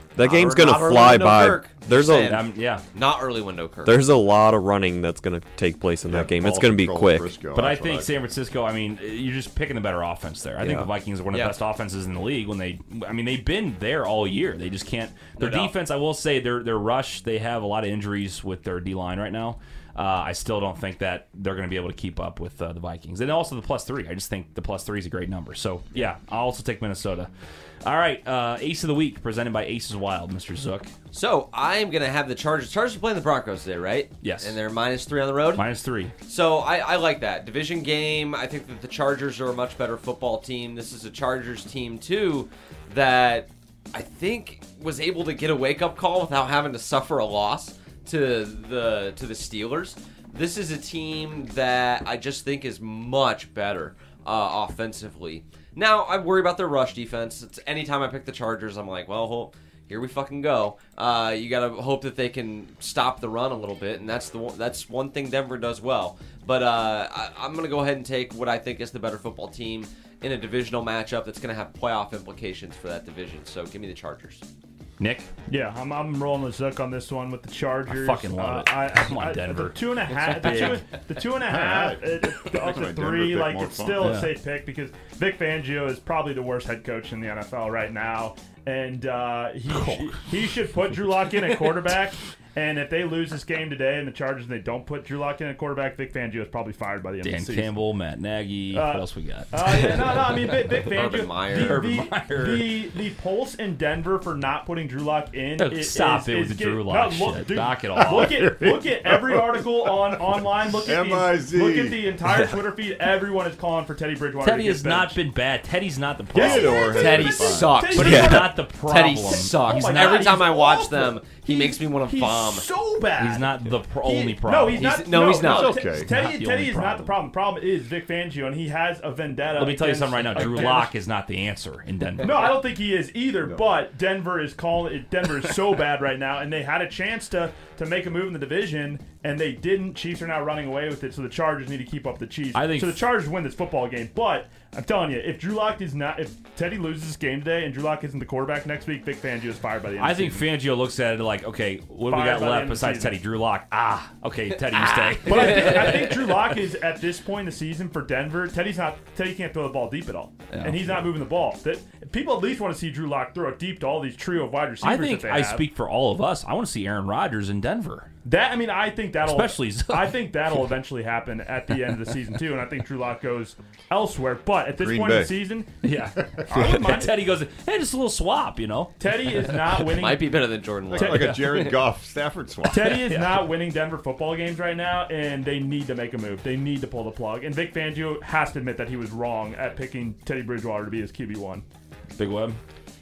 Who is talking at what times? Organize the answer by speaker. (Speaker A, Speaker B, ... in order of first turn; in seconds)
Speaker A: 0.2-2.4, 3.9-7.3, 10.6-10.9, 118.0-118.5
Speaker B: 0.2-4.0, 15.4-15.7, 31.1-35.7, 36.2-74.4, 80.5-80.7, 100.8-101.9, 116.4-122.7, 124.8-125.8, 154.7-156.2, 179.8-181.8
Speaker C: 2.3-2.8, 7.5-27.3, 27.8-30.9, 34.2-34.6, 35.6-36.1, 75.0-75.3, 77.9-80.8, 84.0-84.3, 89.7-90.2, 97.2-99.9, 101.5-102.7, 105.6-108.4, 114.4-116.8, 117.9-120.4, 123.2-124.9, 125.9-127.1, 129.6-132.6, 142.5-143.0, 150.0-156.0, 160.5-161.1, 164.8-168.1, 169.2-170.3, 175.8-179.6, 182.9-183.5, 192.2-192.6
Speaker D: 6.1-8.2, 81.4-84.2, 108.1-109.9, 110.7-112.0, 116.3-117.7, 125.4-126.1, 174.7-175.4, 180.9-183.0
Speaker E: 75.5-97.7, 98.7-115.2, 116.4-118.5, 119.2-130.9, 132.2-150.5, 152.1-153.2, 155.2-165.6, 168.2-175.7, 176.5-177.1, 179.0-180.4, 180.9-181.6, 182.7-191.7